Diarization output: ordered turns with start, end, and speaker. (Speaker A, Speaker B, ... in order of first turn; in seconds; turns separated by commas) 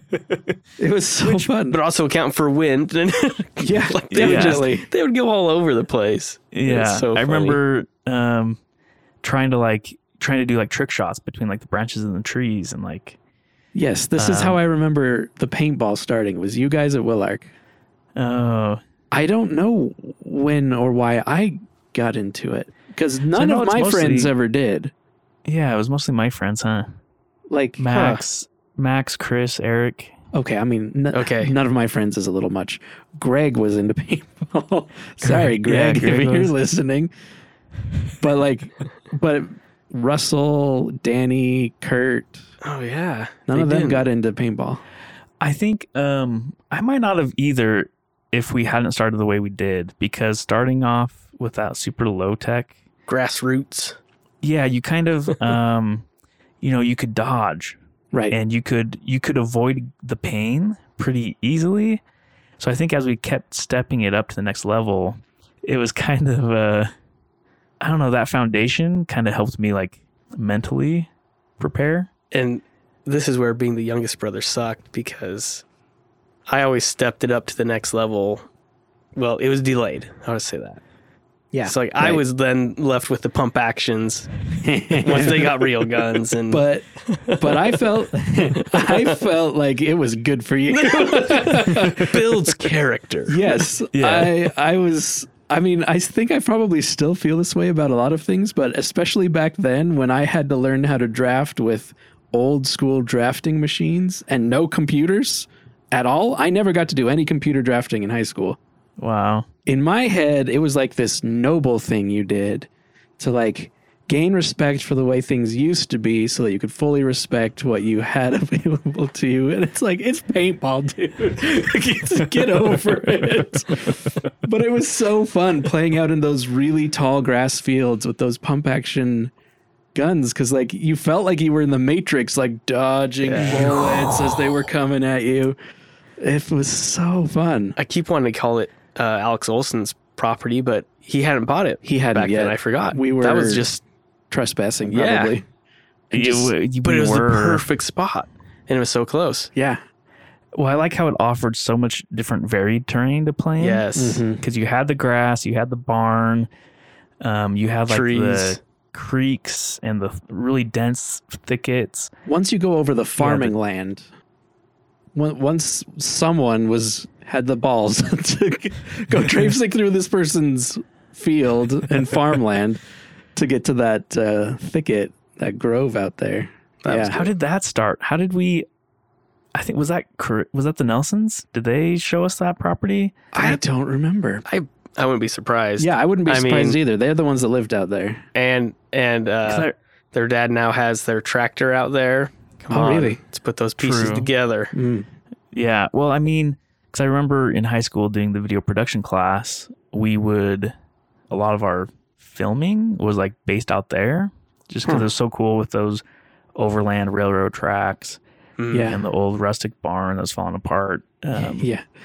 Speaker A: 0.8-1.8, Speaker B: 1.2-7.6, Speaker A: 3.6-4.9, Speaker C: 4.1-4.7, Speaker C: 6.5-8.6, Speaker C: 9.2-13.2, Speaker A: 13.7-17.5, Speaker C: 14.2-14.6, Speaker C: 18.1-18.8, Speaker A: 19.1-24.9, Speaker C: 23.3-24.3, Speaker C: 25.4-26.9, Speaker A: 27.5-27.9, Speaker C: 27.8-30.1, Speaker B: 27.9-28.2, Speaker A: 30.3-37.1, Speaker B: 31.1-31.5, Speaker C: 35.2-36.5, Speaker A: 38.2-42.4, Speaker B: 42.6-44.1, Speaker A: 43.5-44.8, Speaker C: 45.4-52.8, Speaker B: 53.1-54.0, Speaker C: 54.4-56.1, Speaker C: 56.6-57.8, Speaker A: 58.1-58.4, Speaker C: 58.3-62.0, Speaker C: 62.6-66.9, Speaker C: 67.8-72.1, Speaker B: 72.3-75.6, Speaker B: 76.5-78.4, Speaker B: 79.2-80.8, Speaker A: 81.5-82.2, Speaker B: 81.7-84.3, Speaker A: 84.6-85.6, Speaker B: 85.0-87.7, Speaker A: 86.5-92.3, Speaker B: 88.7-89.1, Speaker B: 90.7-93.6, Speaker A: 93.3-108.6, Speaker C: 93.9-94.5, Speaker C: 109.0-109.5, Speaker A: 109.7-129.3, Speaker A: 129.9-135.6, Speaker B: 133.2-133.6, Speaker A: 136.2-137.8, Speaker B: 137.8-143.8, Speaker A: 141.8-143.7, Speaker A: 144.3-145.4, Speaker B: 144.9-145.4, Speaker A: 146.1-146.5, Speaker C: 146.1-147.7, Speaker B: 146.8-149.5, Speaker A: 149.6-149.8, Speaker C: 150.5-153.9, Speaker B: 153.6-154.2, Speaker A: 153.9-154.4, Speaker C: 154.4-156.5, Speaker C: 157.2-162.1, Speaker B: 157.9-158.6, Speaker A: 162.3-164.1, Speaker C: 163.2-163.5, Speaker A: 165.2-172.8, Speaker A: 173.3-177.2, Speaker B: 176.8-177.3, Speaker C: 177.1-178.7, Speaker C: 179.6-183.2, Speaker A: 183.3-184.4, Speaker B: 184.5-186.8, Speaker A: 185.8-188.2, Speaker B: 188.3-194.7, Speaker C: 189.4-189.8, Speaker A: 192.7-193.2, Speaker C: 193.8-194.3, Speaker A: 194.7-195.1, Speaker C: 195.5-200.7, Speaker C: 201.3-206.0, Speaker C: 206.6-208.2, Speaker B: 208.6-208.9, Speaker A: 208.7-209.0, Speaker C: 208.9-211.7, Speaker A: 211.4-211.8